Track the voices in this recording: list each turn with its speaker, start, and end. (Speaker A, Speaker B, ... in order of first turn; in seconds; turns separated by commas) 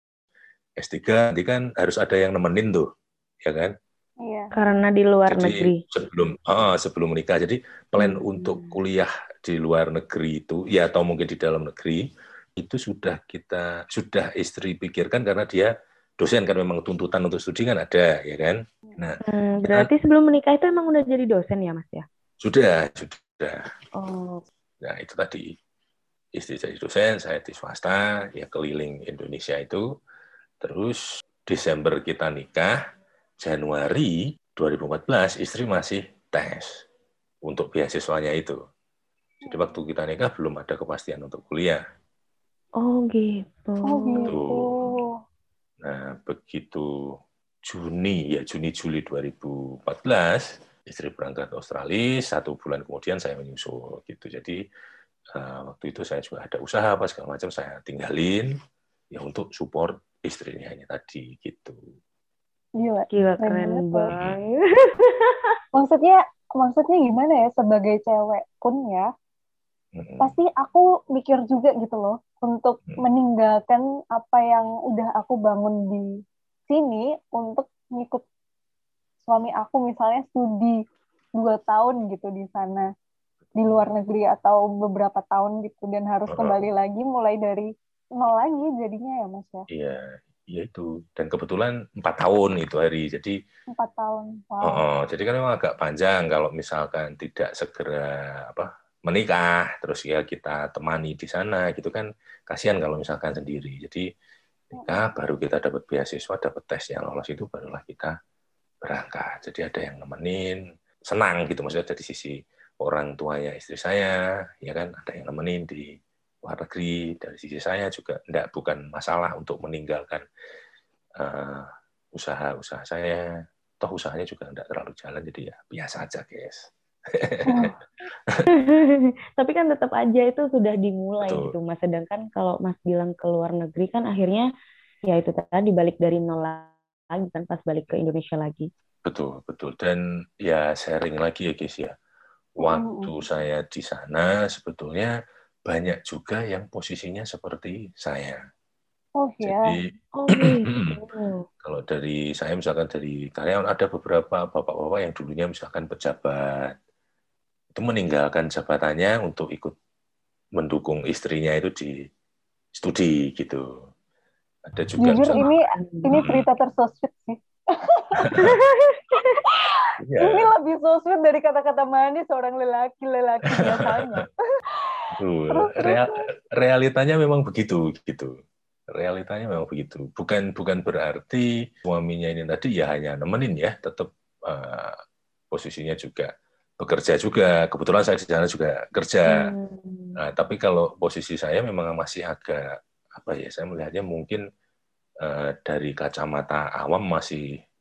Speaker A: 0.8-2.9, Speaker A: 3.4-3.7, Speaker B: 4.2-4.5, Speaker C: 4.5-5.8, Speaker A: 5.3-12.0, Speaker C: 8.0-8.8, Speaker A: 12.6-19.9, Speaker C: 19.2-22.1, Speaker A: 22.4-23.6, Speaker C: 23.9-24.4, Speaker A: 24.8-25.5, Speaker A: 26.3-29.8, Speaker A: 30.6-32.8, Speaker A: 33.4-36.8, Speaker A: 37.4-38.6, Speaker B: 39.4-39.7, Speaker A: 39.5-41.8, Speaker C: 42.8-44.3, Speaker B: 43.9-45.1, Speaker A: 44.3-44.9, Speaker A: 45.8-54.6, Speaker A: 55.3-58.5, Speaker A: 59.1-61.8, Speaker B: 62.8-64.1, Speaker C: 63.1-65.5, Speaker B: 65.7-69.1, Speaker A: 69.9-70.3, Speaker B: 70.2-76.1, Speaker B: 76.7-78.2, Speaker B: 79.2-80.8, Speaker B: 81.4-82.9, Speaker B: 83.6-89.7, Speaker A: 86.3-86.6, Speaker A: 89.7-93.4, Speaker B: 93.7-94.8, Speaker A: 94.6-104.0, Speaker A: 104.8-108.1, Speaker A: 108.8-120.2, Speaker A: 121.2-123.3, Speaker A: 123.8-127.7, Speaker B: 127.5-127.8, Speaker C: 128.5-134.5, Speaker A: 131.2-131.5, Speaker C: 135.1-138.7, Speaker A: 139.1-141.9, Speaker A: 142.6-145.1, Speaker B: 142.6-143.1, Speaker A: 145.7-148.4, Speaker B: 149.2-149.8, Speaker A: 149.4-151.0, Speaker C: 150.1-151.4, Speaker A: 151.6-156.7, Speaker A: 157.7-159.8, Speaker A: 160.6-162.0, Speaker A: 162.7-163.9, Speaker A: 164.7-165.5, Speaker B: 165.0-168.5, Speaker C: 165.3-166.0, Speaker A: 166.1-166.4, Speaker A: 168.2-168.6, Speaker C: 168.4-169.0, Speaker B: 169.2-174.3, Speaker A: 170.0-170.5, Speaker A: 173.6-174.2, Speaker B: 174.8-176.1, Speaker A: 175.1-178.4, Speaker A: 178.9-185.0, Speaker A: 185.5-189.5, Speaker C: 189.3-190.2, Speaker A: 190.2-194.4, Speaker A: 195.2-197.5